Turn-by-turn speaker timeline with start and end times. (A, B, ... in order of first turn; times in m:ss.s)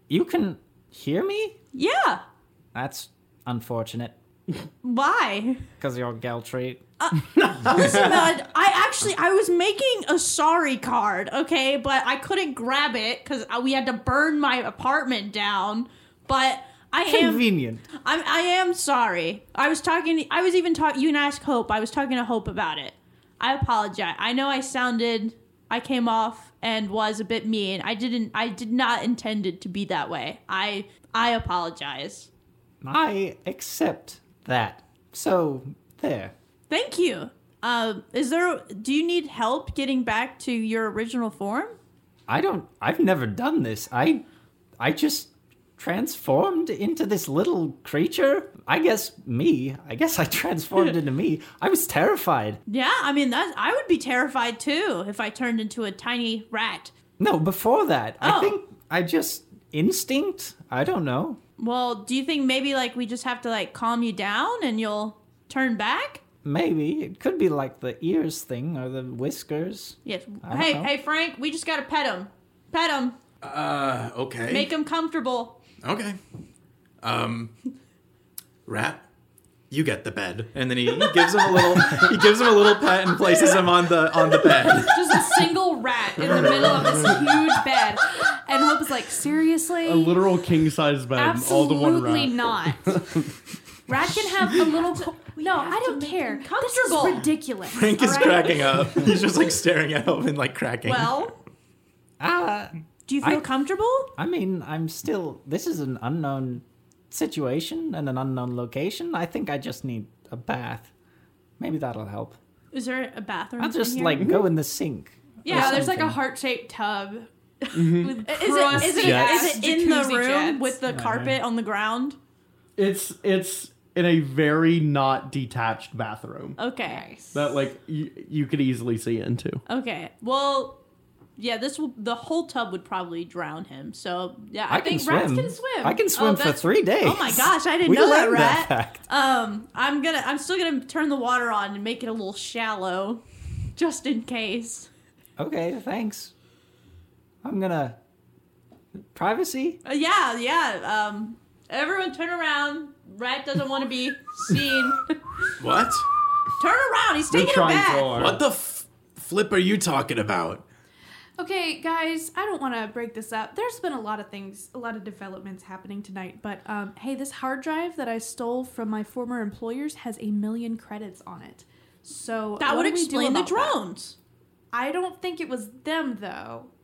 0:00.1-0:01.6 A
0:01.7-0:02.2 B
0:02.7-0:04.2 A
0:04.8-0:05.6 B
0:05.8-0:06.8 A
0:07.0-0:32.3 B
0:07.4-0:08.3 C
0:17.0-0:17.8 A
0:32.8-0:36.3 A
0:36.7-0:41.8 B
0:42.3-0:44.2 A
0:44.8-0:52.6 A
0:52.7-0:56.9 B
0:57.2-1:01.4 A
0:58.2-0:58.6 B
1:01.6-1:06.2 B
1:06.4-1:10.9 A
1:10.0-1:13.2 B
1:13.4-1:14.7 D
1:14.5-1:15.6 B
1:15.8-1:16.2 D
1:17.0-1:17.5 D
1:18.6-1:19.0 D
1:19.7-1:25.5 D
1:24.4-1:30.2 E
1:26.2-1:27.4 C
1:29.8-1:33.3 C
1:31.2-1:33.2 E
1:33.9-1:38.8 E
1:34.6-1:37.3 B
1:37.7-1:41.2 D
1:40.8-1:41.4 B
1:42.2-1:43.4 A
1:43.1-1:44.1 B
1:44.2-1:50.9 A
1:51.6-1:52.4 A
1:52.7-1:54.3 B
1:53.6-1:56.2 A
1:54.2-1:54.5 C
1:55.4-1:55.8 B
1:55.4-2:00.8 E
1:57.6-2:02.2 B
1:57.7-1:58.2 C
1:58.7-1:59.5 C
2:00.9-2:01.4 A
2:02.8-2:06.6 C
2:06.6-2:07.0 B
2:06.8-2:07.7 E
2:07.3-2:09.6 C
2:09.7-2:10.8 B
2:11.4-2:14.9 B
2:14.7-2:19.0 A
2:14.7-2:16.5 E
2:16.2-2:23.2 B
2:23.8-2:24.9 B
2:25.4-2:26.3 A
2:27.4-2:28.0 A
2:29.1-2:29.8 A
2:29.8-2:35.5 B
2:35.6-2:36.1 D
2:36.6-2:38.2 B
2:37.3-2:38.4 C
2:38.1-2:40.6 D
2:41.4-2:53.8 E
2:52.6-2:54.2 B
2:54.7-2:56.7 E